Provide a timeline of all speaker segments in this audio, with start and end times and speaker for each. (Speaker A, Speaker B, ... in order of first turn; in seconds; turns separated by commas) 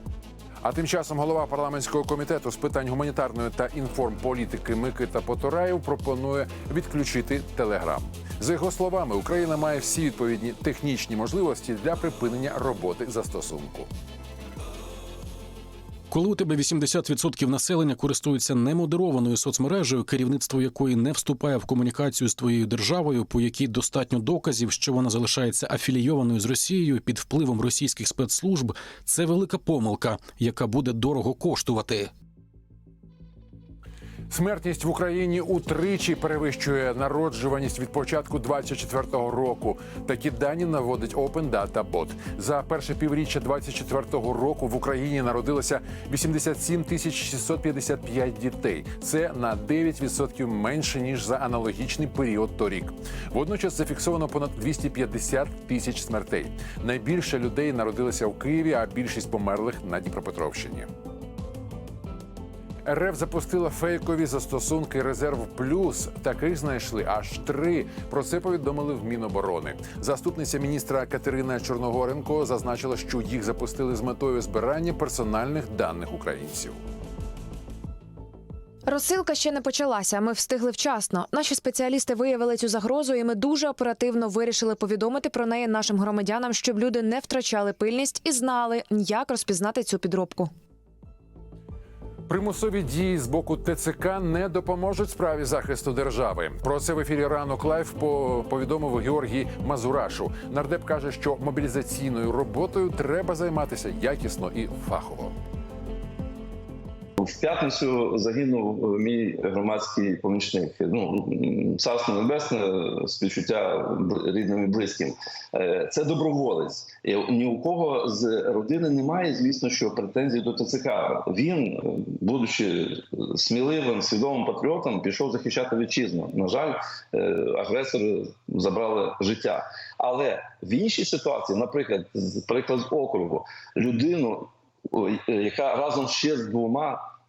Speaker A: 0.6-13.9, Speaker B: 16.1-32.1, Speaker A: 34.3-60.9, Speaker A: 62.8-76.8, Speaker C: 78.8-90.5, Speaker A: 92.3-105.3, Speaker D: 107.2-121.7, Speaker D: 122.2-122.7, Speaker D: 123.4-134.3, Speaker D: 135.0-136.9